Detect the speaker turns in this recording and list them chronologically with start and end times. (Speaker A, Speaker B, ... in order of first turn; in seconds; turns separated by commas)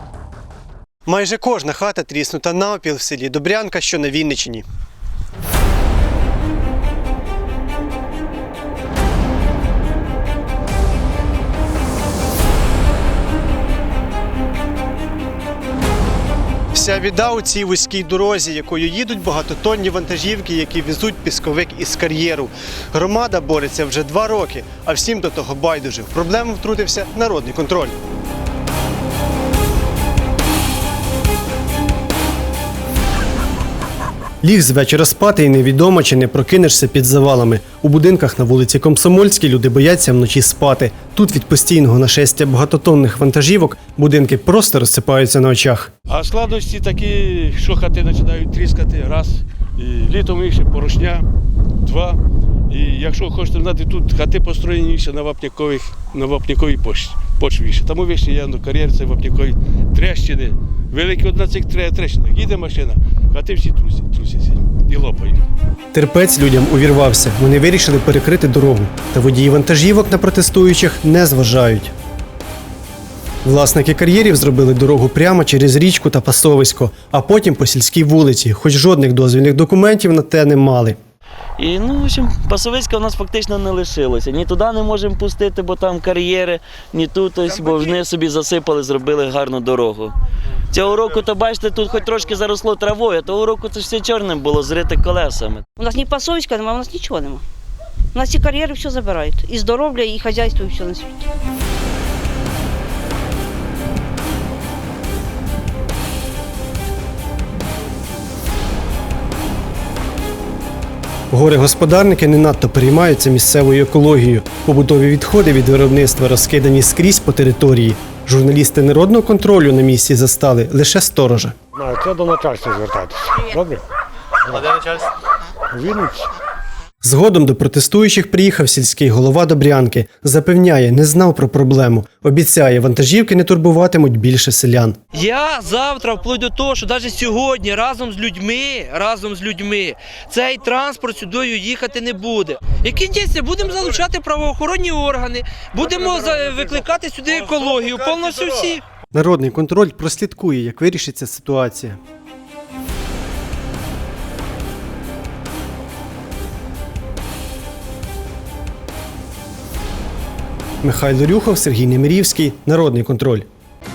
Speaker A: 1.1-4.6, Speaker A: 16.7-27.9, Speaker A: 34.4-45.9, Speaker B: 46.1-51.2, Speaker B: 51.8-65.4, Speaker A: 65.9-71.9, Speaker A: 73.5-81.0, Speaker C: 81.6-90.1, Speaker C: 90.7-95.6, Speaker D: 95.8-97.4, Speaker D: 98.1-101.2, Speaker A: 111.3-121.5, Speaker E: 121.8-123.8, Speaker E: 124.5-125.0, Speaker E: 125.7-126.3, Speaker A: 127.0-135.0, Speaker F: 135.1-148.8, Speaker A: 149.1-152.0, Speaker A: 160.8-163.5